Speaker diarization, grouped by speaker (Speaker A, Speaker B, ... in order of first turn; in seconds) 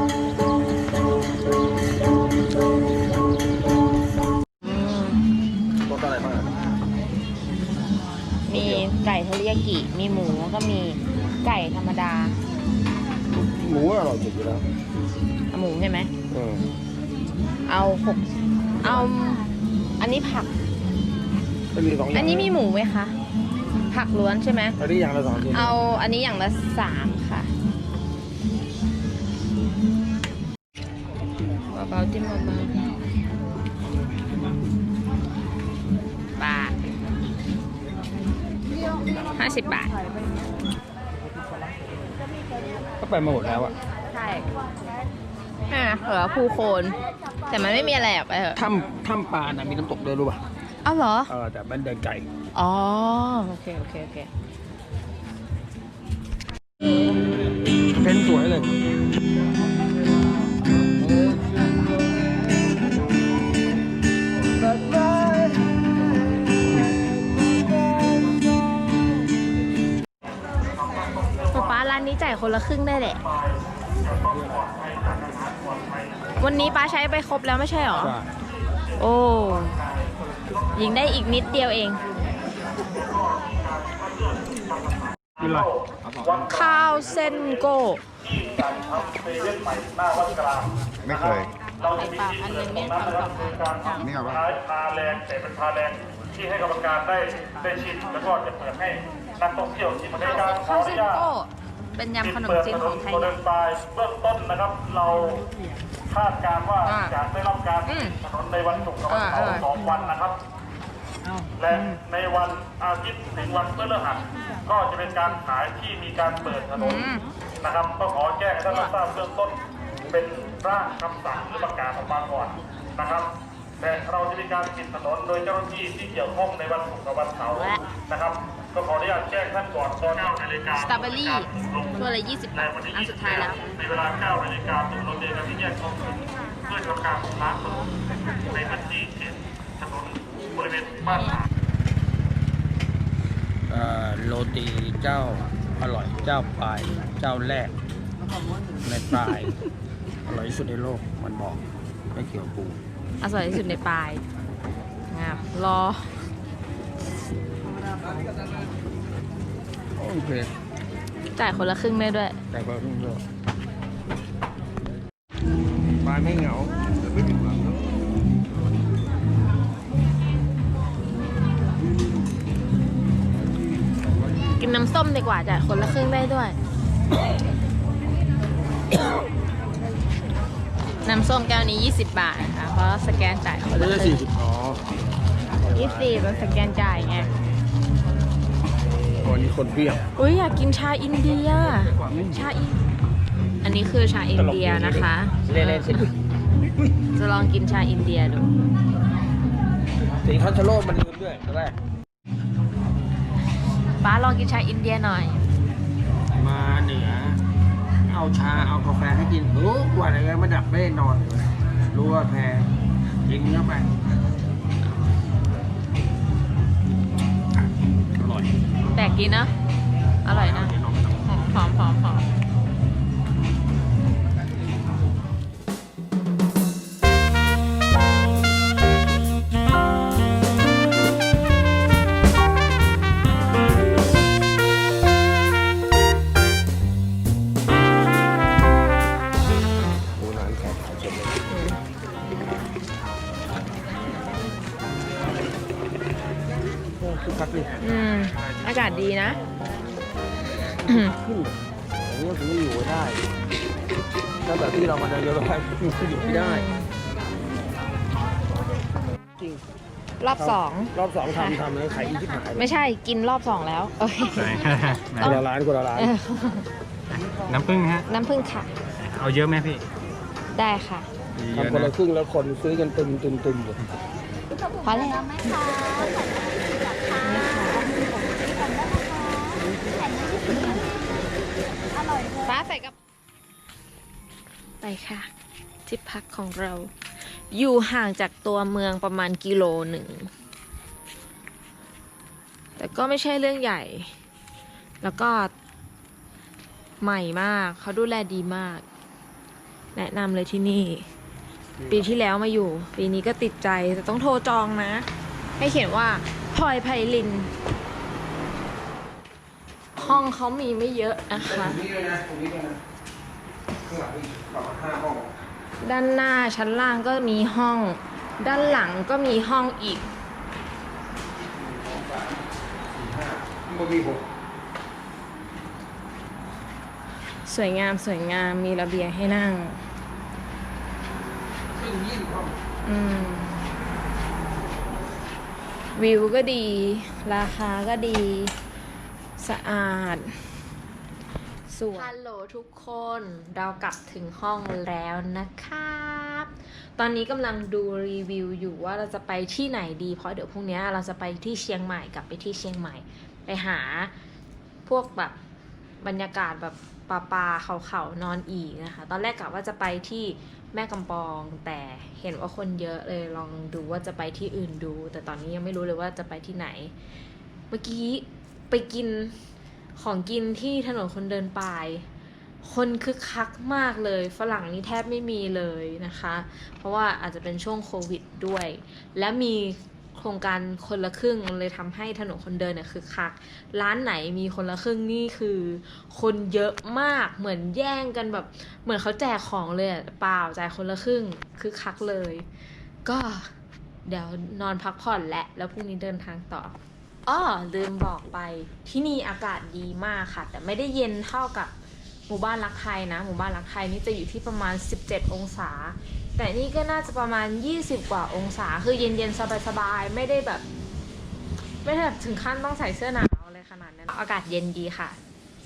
Speaker A: 4.6-5.2, 8.4-12.4, 15.5-16.1, 17.7-20.5, 22.1-23.1, 23.9-24.8, 25.5-27.5, 31.7-32.8, 36.4-36.8, 39.2-39.9, 44.1-44.5, 45.7-47.0, 47.5-48.6, 50.8-51.3, 52.5-54.3, 71.5-73.2, 76.4-78.1, 79.0-79.8, 80.7-82.0, 86.4-88.0, 91.9-93.7, 100.2-103.4, 106.8-107.2, 107.8-108.2, 109.0-109.9, 111.7-112.0, 116.7-117.2, 127.4-127.8, 130.7-133.7, 141.1-141.4, 153.2-154.2, 155.1-156.2, 161.3-162.4, 174.6-176.6, 181.0-184.2, 185.7-187.3, 190.2-192.8, 193.6-196.1, 197.1-198.5, 204.0-205.4, 218.9-219.5, 220.2-222.2, 241.5-241.8, 247.8-249.4, 250.8-251.1, 256.2-256.9, 260.2-261.6, 262.6-264.6, 266.0-266.7, 268.1-268.7, 270.5-271.1, 274.8-276.1, 277.1-277.9, 279.2-279.5, 280.1-280.9, 282.3-282.9, 284.8-285.3, 285.9-290.3, 292.8-294.1, 295.0-295.5, 297.0-298.8, 299.9-301.1, 301.9-307.5, 310.0-311.8, 315.8-320.1, 327.4-329.8, 332.8-333.6, 335.9-338.5, 339.4-340.5, 341.7-354.1, 354.9-355.4, 356.0-366.9, 367.7-369.4, 369.9-372.1, 372.6-392.4, 393.0-393.5, 394.1-401.7, 402.3-410.6, 411.8-415.2
Speaker B: 5.9-6.5, 8.5-8.9, 13.4-14.6, 16.3-16.6, 18.8-19.1, 21.7-22.5, 24.8-25.8, 43.0-43.7, 48.5-50.4, 51.3-52.3, 57.9-58.7, 74.3-74.7, 78.0-78.3, 85.4-85.7, 143.7-147.7, 148.8-149.6, 150.2-151.6, 152.1-152.9, 159.9-160.5, 162.5-163.2, 166.0-167.3, 183.7-184.8, 189.2-190.0, 192.0-192.4, 194.3-196.1, 200.1-201.8, 206.3-207.4, 208.1-212.7, 213.2-213.9, 217.6-218.5, 220.3-221.3, 240.2-241.4, 247.0-247.8, 250.8-253.2, 254.4-256.6, 259.4-259.6, 260.3-262.7, 265.2-266.1, 271.5-273.8, 301.8-302.1, 310.0-310.2, 311.3-312.8, 313.8-315.4, 321.5-324.2, 331.7-332.6
Speaker C: 75.0-75.6, 88.5-90.5, 91.1-91.5, 93.5-95.9, 96.5-99.0, 99.5-100.1, 103.7-105.2, 109.5-110.1, 112.3-116.6, 117.9-119.3, 120.4-122.5, 123.9-127.4, 128.9-130.4, 134.3-136.2, 136.7-137.5, 138.6-139.2
Speaker D: 264.3-265.4, 267.2-268.0, 269.1-269.8, 271.4-271.9